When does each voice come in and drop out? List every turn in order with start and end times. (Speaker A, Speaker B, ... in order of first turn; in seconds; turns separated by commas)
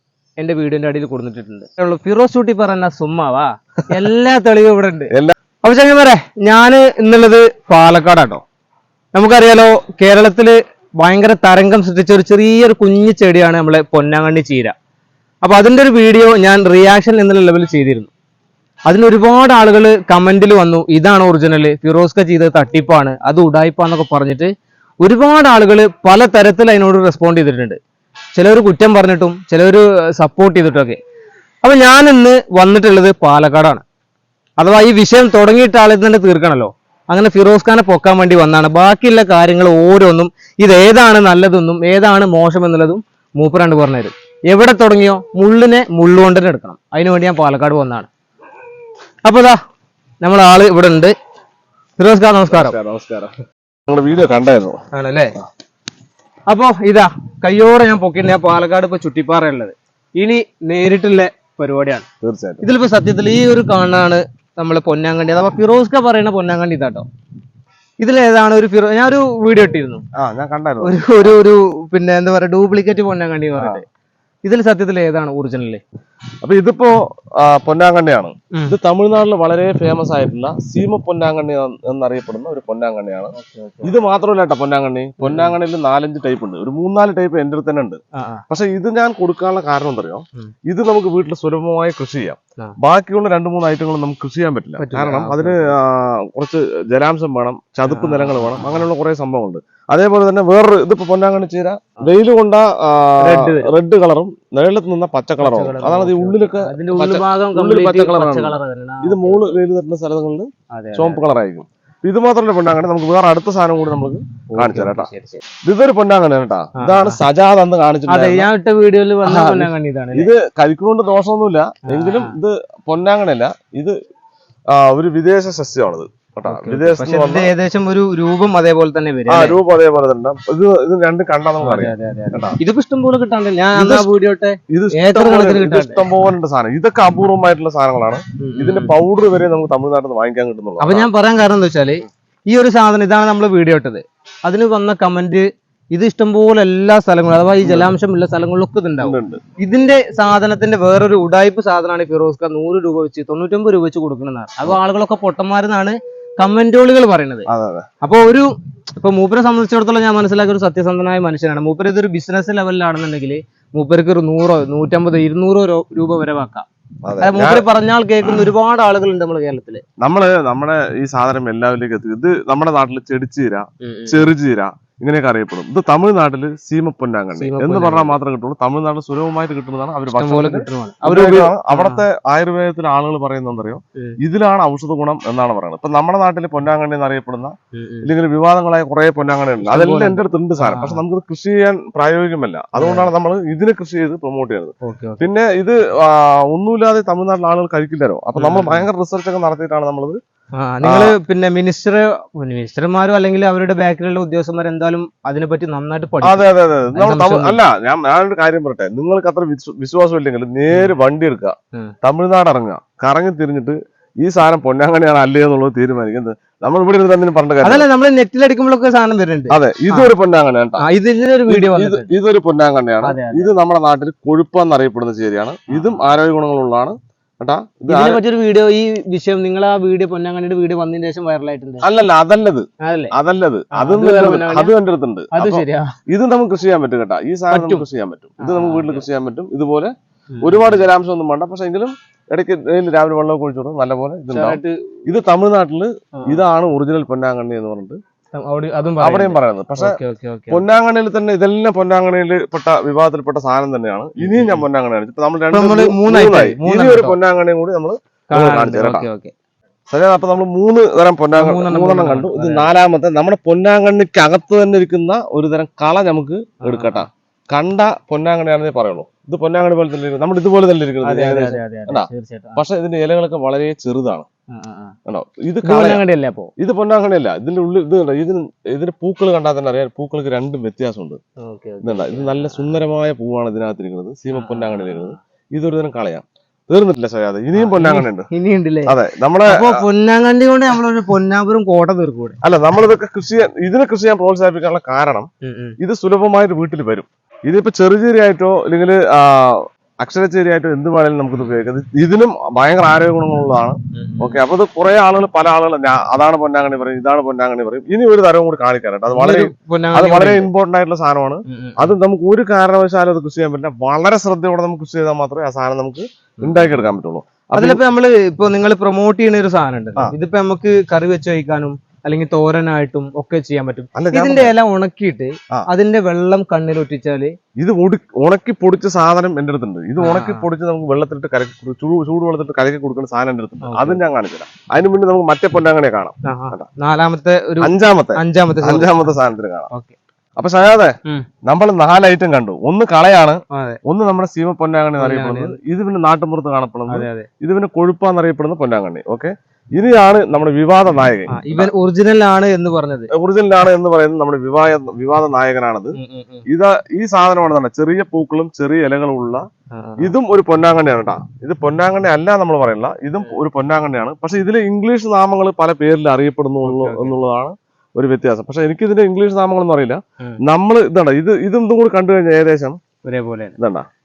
Speaker A: 0.4-5.1, Speaker A: 5.6-8.4, Speaker A: 9.1-14.7, Speaker A: 15.4-18.1, Speaker A: 18.9-27.8, Speaker A: 28.3-31.0, Speaker A: 31.6-33.8, Speaker A: 34.6-48.1, Speaker A: 49.2-49.6, Speaker A: 50.2-51.1, Speaker A: 52.0-52.8, Speaker B: 52.5-53.3, Speaker B: 53.9-54.8, Speaker A: 54.9-55.3, Speaker A: 56.5-62.0, Speaker B: 62.2-62.6, Speaker A: 62.6-67.0, Speaker A: 68.0-70.0, Speaker B: 70.1-71.3, Speaker A: 70.8-73.8, Speaker A: 74.4-75.8, Speaker B: 76.4-115.1, Speaker A: 83.4-83.9, Speaker A: 85.2-85.5, Speaker A: 88.2-88.4, Speaker A: 94.8-95.7, Speaker A: 97.9-98.8, Speaker A: 103.2-103.7, Speaker A: 105.4-109.6, Speaker A: 110.7-111.2, Speaker A: 114.5-115.4, Speaker B: 115.6-118.5, Speaker A: 116.8-117.2, Speaker A: 118.1-120.3, Speaker B: 119.2-124.0, Speaker A: 121.9-122.3, Speaker B: 124.7-127.5, Speaker A: 126.5-129.6, Speaker B: 129.3-132.6, Speaker A: 131.6-136.1, Speaker B: 133.7-134.1, Speaker B: 134.7-141.1, Speaker A: 138.4-138.9, Speaker A: 140.8-157.5, Speaker B: 147.6-147.9, Speaker B: 149.0-149.4, Speaker B: 157.5-157.8, Speaker A: 158.0-166.7, Speaker B: 167.0-167.7, Speaker A: 167.2-169.8, Speaker B: 170.0-200.2, Speaker A: 173.8-174.3, Speaker A: 177.3-178.1, Speaker A: 180.1-182.0, Speaker A: 187.7-188.1, Speaker A: 189.6-191.0, Speaker A: 192.8-193.1, Speaker A: 194.8-195.3, Speaker A: 198.3-198.8, Speaker A: 200.5-207.6, Speaker B: 200.8-201.2, Speaker B: 206.2-217.8, Speaker A: 217.6-220.1, Speaker B: 219.5-220.8, Speaker A: 220.8-222.1, Speaker B: 221.5-228.2, Speaker A: 223.0-223.5, Speaker A: 225.7-226.0, Speaker A: 227.9-231.8, Speaker B: 231.8-248.0, Speaker A: 232.8-233.1, Speaker A: 233.7-234.7, Speaker A: 235.3-235.9, Speaker A: 237.5-237.8, Speaker A: 238.4-239.1, Speaker A: 240.3-240.8, Speaker A: 244.3-244.8, Speaker A: 248.3-250.6, Speaker B: 249.0-250.0, Speaker B: 250.5-259.1, Speaker A: 254.2-254.7, Speaker A: 255.5-257.2, Speaker A: 258.3-259.3, Speaker B: 259.9-274.2, Speaker A: 261.3-262.7, Speaker A: 266.6-267.1, Speaker A: 271.0-272.6, Speaker A: 274.5-274.9, Speaker B: 275.1-276.0, Speaker A: 275.6-276.5, Speaker B: 276.6-281.2, Speaker A: 281.4-282.7, Speaker B: 281.8-288.2, Speaker A: 284.3-285.1, Speaker A: 287.5-288.9, Speaker B: 288.9-289.8, Speaker A: 289.4-292.4, Speaker B: 292.4-295.3, Speaker A: 295.4-295.8, Speaker B: 295.8-317.8, Speaker A: 303.9-304.4, Speaker A: 309.1-310.5, Speaker A: 311.5-311.9, Speaker A: 316.4-316.9, Speaker A: 317.5-327.3, Speaker B: 323.9-324.5, Speaker B: 327.6-336.7, Speaker A: 330.0-330.4, Speaker A: 333.6-334.0, Speaker A: 336.2-339.1, Speaker B: 337.6-339.7, Speaker B: 340.4-340.9, Speaker B: 341.5-351.7, Speaker A: 343.5-343.8, Speaker A: 345.0-345.6, Speaker A: 346.9-347.3, Speaker A: 351.3-353.1, Speaker B: 353.1-355.9, Speaker A: 355.9-356.4, Speaker B: 356.5-359.4, Speaker A: 359.7-360.1, Speaker B: 360.0-372.8, Speaker A: 366.6-367.2, Speaker A: 373.0-373.6, Speaker B: 373.6-373.9